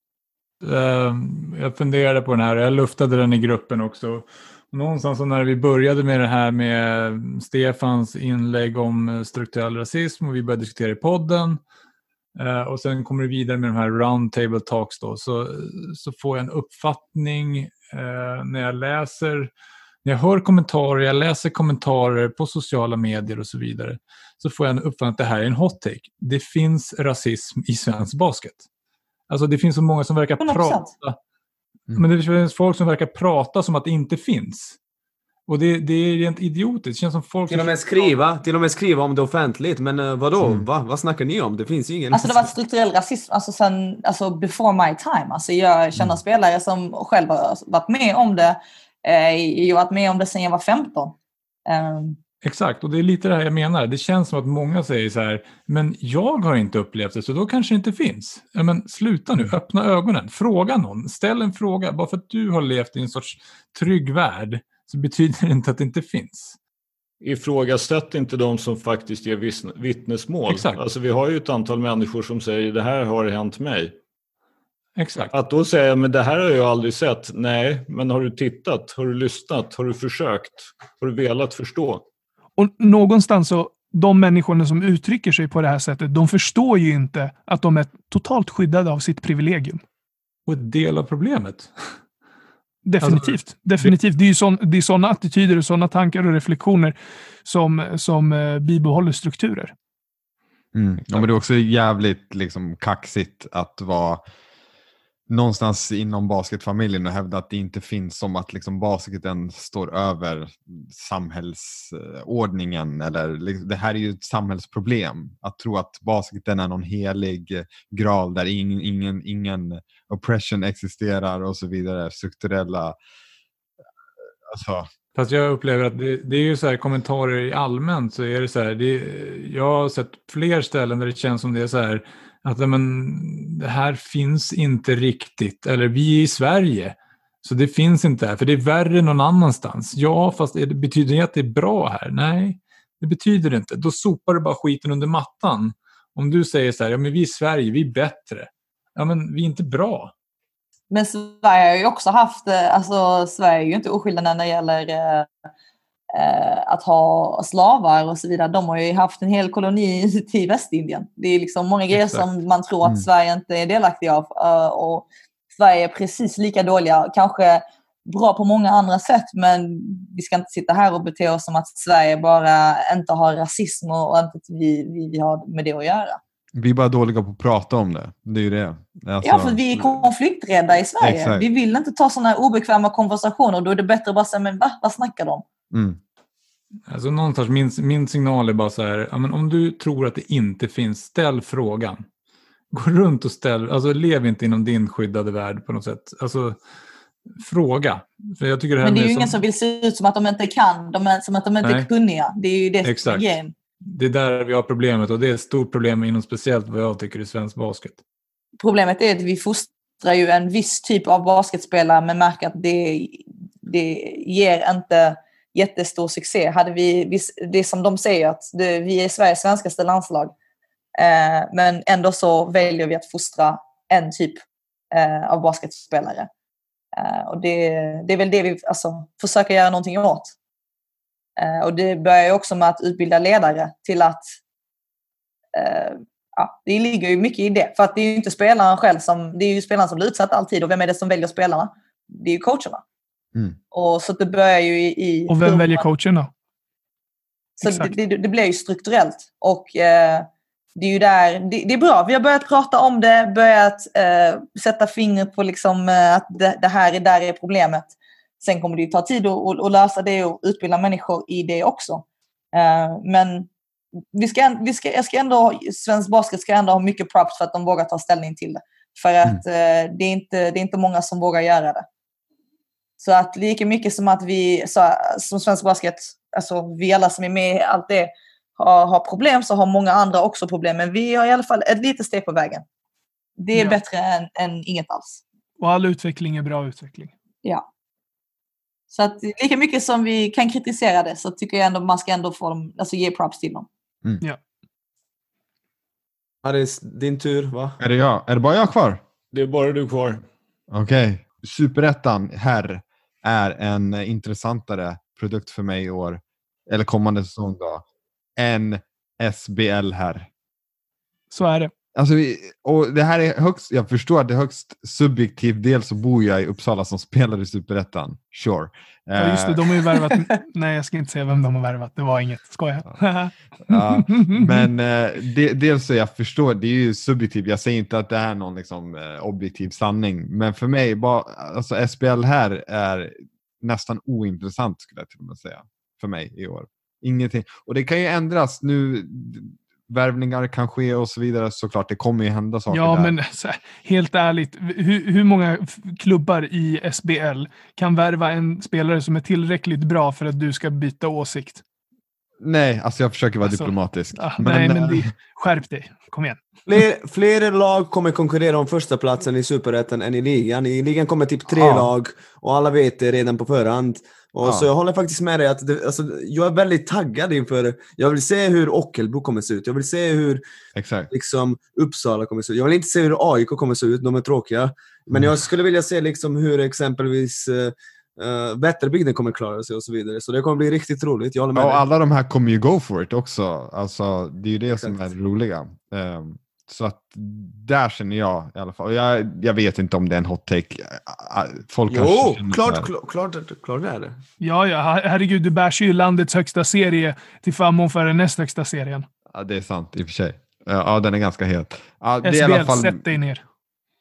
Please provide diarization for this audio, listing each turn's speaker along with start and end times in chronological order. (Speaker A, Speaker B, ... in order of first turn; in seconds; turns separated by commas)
Speaker A: 0.6-11.6, Speaker A: 12.3-19.5, Speaker A: 20.0-28.6, Speaker A: 29.3-31.2, Speaker B: 30.4-30.9, Speaker A: 31.9-34.8, Speaker A: 35.5-38.0, Speaker C: 37.5-42.5, Speaker B: 42.1-51.1, Speaker B: 51.7-52.2, Speaker A: 52.4-66.6, Speaker D: 67.2-74.0, Speaker A: 70.5-70.8, Speaker A: 75.0-75.3, Speaker D: 75.3-82.0, Speaker E: 82.6-89.8, Speaker A: 90.5-91.7, Speaker E: 92.8-99.7, Speaker A: 93.0-93.9, Speaker F: 100.7-104.2, Speaker F: 105.3-123.0, Speaker F: 124.5-124.9, Speaker A: 125.2-150.1, Speaker B: 150.9-155.3, Speaker B: 156.1-176.2, Speaker A: 161.9-162.3, Speaker F: 176.6-180.1, Speaker B: 179.2-185.4, Speaker F: 181.0-181.4, Speaker F: 185.7-186.0, Speaker A: 186.9-192.1, Speaker A: 192.7-196.6, Speaker A: 197.4-199.4, Speaker B: 198.8-203.5, Speaker A: 201.6-201.9, Speaker A: 202.8-208.0, Speaker B: 208.6-220.3, Speaker B: 221.0-224.4, Speaker B: 224.9-226.3, Speaker B: 226.9-230.3, Speaker B: 231.4-234.4, Speaker B: 235.5-242.8, Speaker B: 243.7-245.8, Speaker E: 245.3-246.3, Speaker B: 247.6-263.5, Speaker E: 247.6-247.9, Speaker B: 264.1-271.9, Speaker B: 273.0-282.6, Speaker B: 283.4-285.2, Speaker E: 285.6-287.1, Speaker B: 288.9-293.7, Speaker C: 296.4-297.8, Speaker F: 297.8-299.0, Speaker D: 299.3-300.2, Speaker F: 300.7-307.8, Speaker F: 308.4-310.3, Speaker E: 311.3-311.7, Speaker F: 312.0-319.7, Speaker E: 319.2-324.7, Speaker F: 323.7-343.1, Speaker E: 342.7-351.6, Speaker F: 352.4-355.1, Speaker E: 353.5-356.4, Speaker C: 356.7-370.4, Speaker F: 361.5-361.9, Speaker F: 370.8-371.1, Speaker C: 371.1-381.8, Speaker F: 381.6-392.9, Speaker C: 384.8-385.1, Speaker C: 391.9-394.2, Speaker E: 394.4-399.1, Speaker F: 399.4-403.0, Speaker E: 402.2-403.4